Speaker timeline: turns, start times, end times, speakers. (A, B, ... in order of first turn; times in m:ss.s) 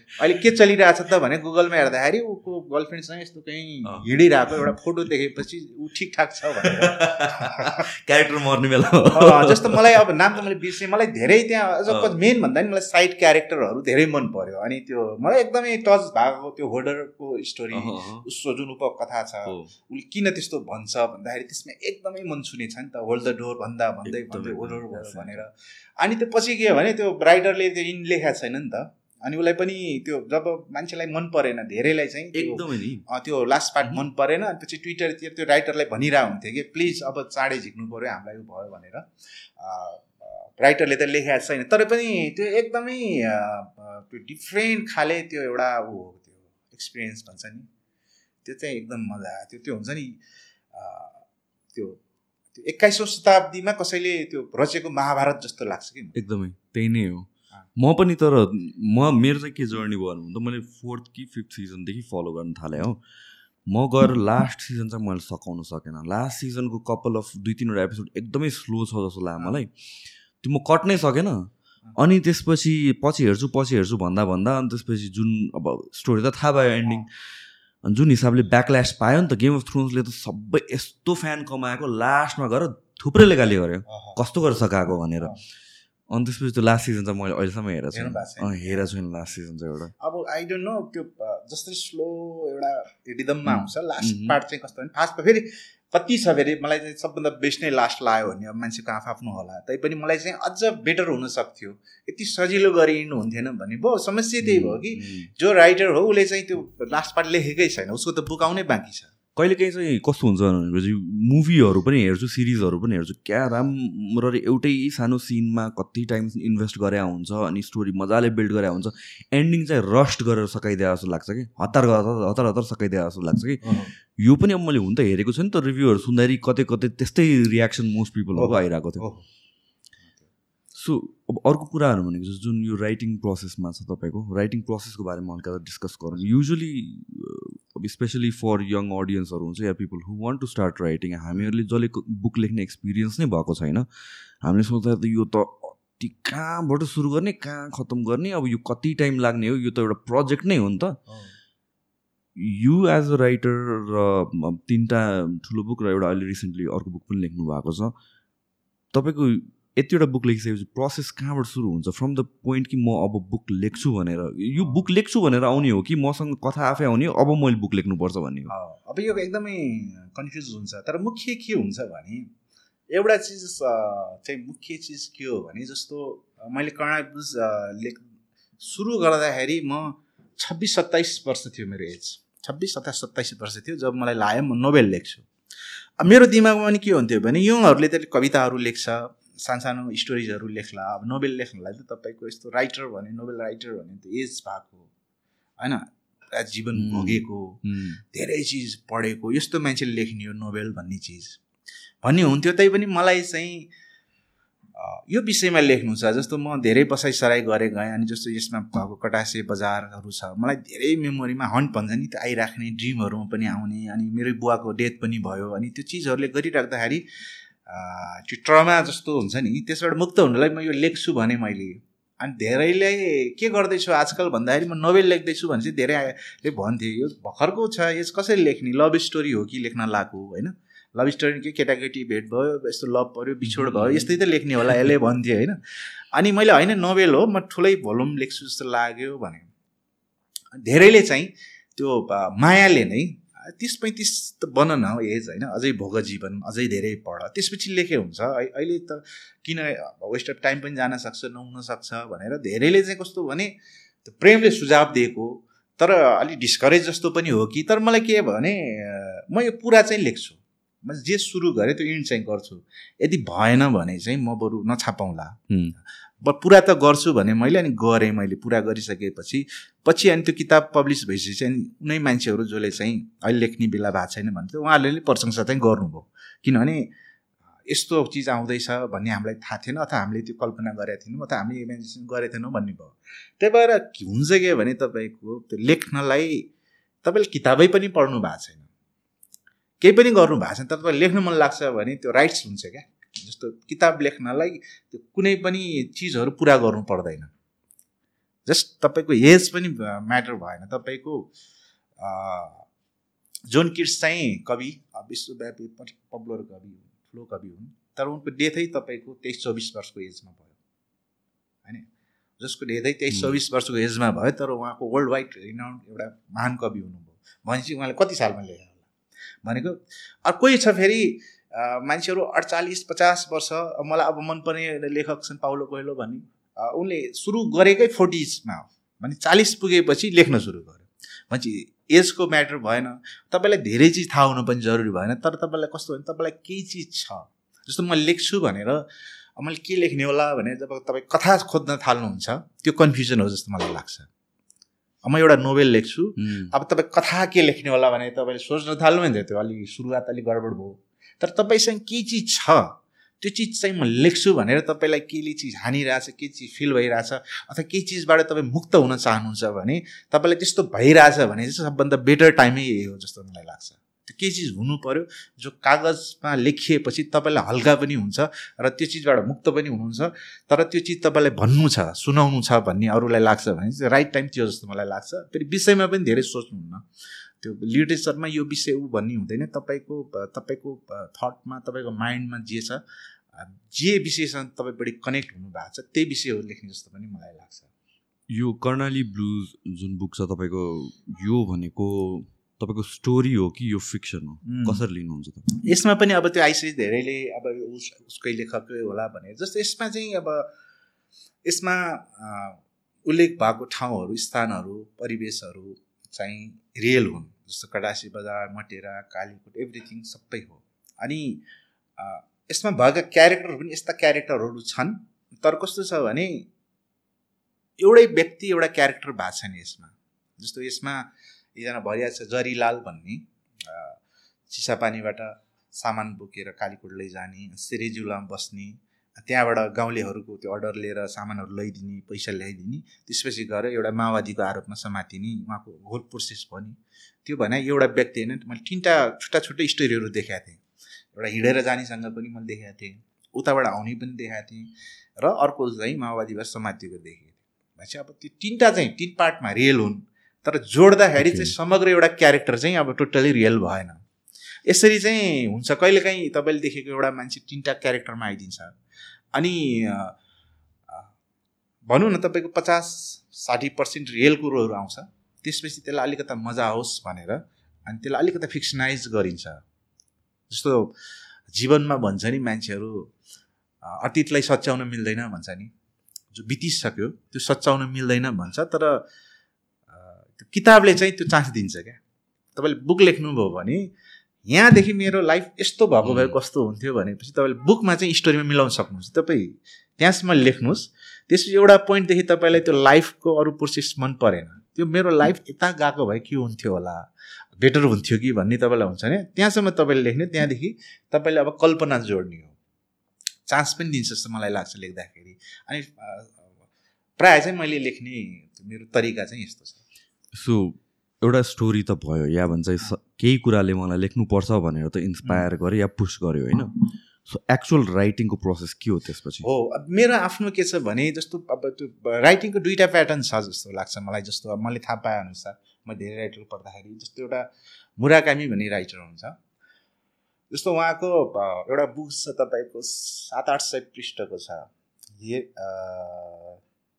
0:00.2-0:07.8 A
0:03.8-0:04.1 B
0:06.6-0:10.0 B
0:09.1-0:47.7 A
0:11.9-0:12.1 B
0:17.7-0:18.3 B
0:19.5-0:19.7 B
0:24.0-0:25.4 B
0:32.3-0:33.0 B
0:48.4-0:50.2 A
0:50.7-0:51.2 A
0:51.7-0:52.0 A
0:52.6-0:56.2 A
0:56.2-1:03.0 B
1:03.7-1:09.7 B
1:10.4-1:17.1 B
1:17.8-1:25.4 B
1:23.9-1:24.2 A
1:26.1-1:29.9 B
1:27.9-1:28.9 A
1:30.0-1:49.1 A
1:33.5-1:34.4 B
1:44.4-1:45.3 B
1:49.4-2:09.1 B
2:03.6-2:03.9 A
2:08.4-2:09.2 A
2:10.8-2:23.9 B
2:24.4-2:31.0 B
2:31.1-2:31.3 A
2:32.4-2:38.0 B
2:38.9-2:48.5 B
2:44.6-2:44.8 A
2:48.5-2:52.3 A
2:52.9-2:58.0 A
2:58.6-3:05.3 A
3:06.0-3:14.9 A
3:15.6-3:21.4 A
3:16.8-3:18.0 B
3:22.0-3:23.7 A
3:24.8-3:37.0 A
3:37.7-3:59.5 A
3:53.4-3:54.1 B
4:00.5-4:13.5 A
4:14.0-4:25.4 A
4:25.5-4:25.8 B
4:26.2-4:36.9 A
4:37.7-4:46.5 A
4:47.0-4:48.7 A
4:49.8-4:57.3 A
4:58.5-5:01.3 A
5:02.0-5:02.7 A
5:03.5-5:10.5 A
5:12.4-5:18.8 A
5:13.1-5:13.4 B
5:19.4-5:38.8 A
5:39.4-5:44.1 A
5:45.0-6:22.8 A
5:46.2-5:46.5 B
6:23.3-6:27.7 A
6:28.3-6:35.5 B
6:34.4-6:34.8 A
6:35.5-6:40.5 A
6:41.4-6:51.4 A
6:52.0-6:56.5 A
6:57.8-7:20.6 A
7:21.1-7:34.0 A
7:31.2-7:31.5 B
7:34.7-7:38.8 A
7:39.3-7:40.2 A
7:41.9-7:49.6 A
7:50.5-7:50.9 A
7:51.5-7:53.1 A
7:53.8-7:55.7 A
7:56.3-7:59.0 A
7:59.9-8:02.0 A
8:02.6-8:03.9 A
8:04.5-8:17.0 A
8:06.0-8:06.4 B
8:17.6-8:22.5 A
8:23.5-8:26.5 A
8:27.2-8:29.8 A
8:30.3-8:39.5 B
8:39.4-8:49.4 A
8:50.5-8:56.6 A